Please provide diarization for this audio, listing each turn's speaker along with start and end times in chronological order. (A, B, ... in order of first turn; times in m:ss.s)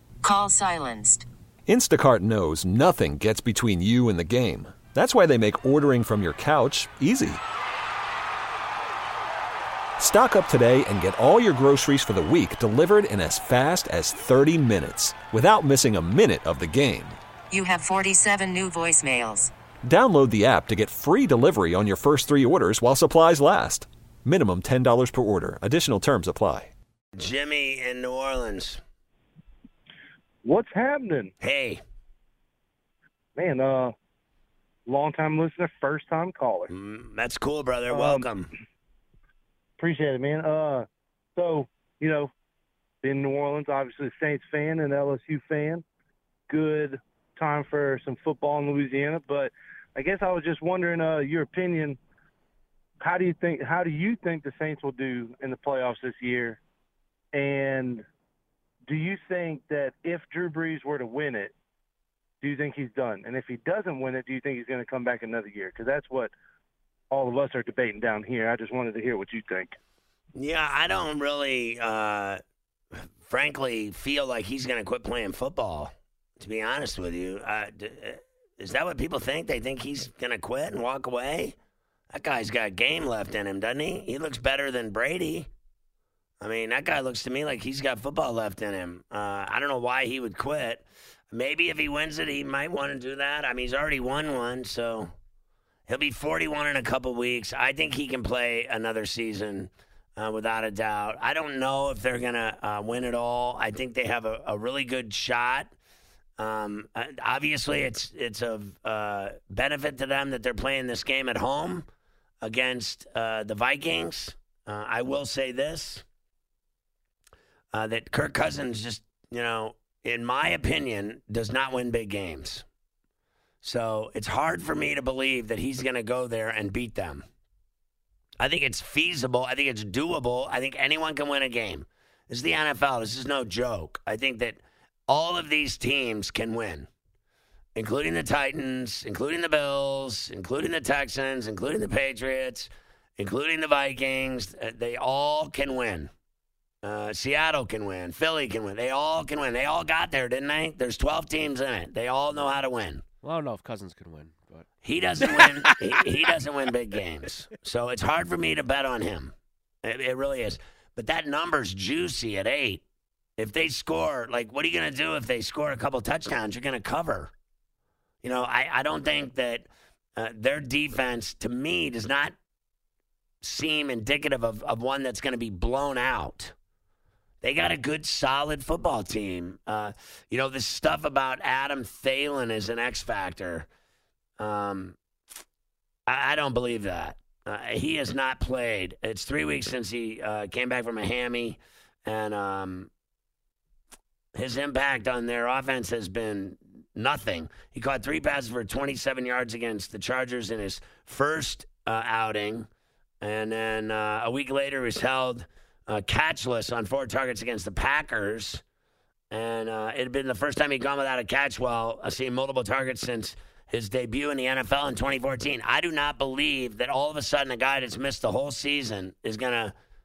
0:00.2-0:01.3 A
0:01.7-0:07.4 B
0:10.0-0:17.2 B
0:17.5-0:19.5 A
0:19.8-0:26.7 B
0:27.2-0:28.8 C
0:30.4-0:31.3 D
0:31.4-0:31.8 C
0:33.4-0:34.0 D
0:34.9-0:36.7 D
0:36.7-0:38.5 C
0:37.9-0:38.3 D
0:39.8-0:42.3 D
0:43.0-0:45.8 D
0:46.5-0:52.0 D
0:53.0-0:56.6 D
0:57.3-0:58.1 D
0:58.9-1:01.5 D
1:02.4-1:06.3 D
1:07.1-1:09.8 D
1:10.4-1:12.4 C
1:13.2-1:21.6 C
1:22.1-1:25.5 C
1:26.4-1:35.1 C
1:35.9-1:45.8 C
1:46.4-1:51.9 C
1:52.4-1:56.1 C
1:57.7-2:02.6 C
2:03.6-2:07.3 C
2:08.4-2:16.9 C
2:17.8-2:26.1 C
2:26.8-2:33.0 C
2:33.2-2:34.7 E
2:34.8-2:42.8 C
2:35.2-2:36.0 E
2:43.4-2:47.3 C
2:48.2-2:52.4 C
2:53.4-2:56.5 C
2:57.4-3:03.7 C
3:04.4-3:05.0 C
3:06.1-3:12.9 C
3:14.4-3:22.7 C
3:23.2-3:28.6 C
3:29.3-3:39.7 C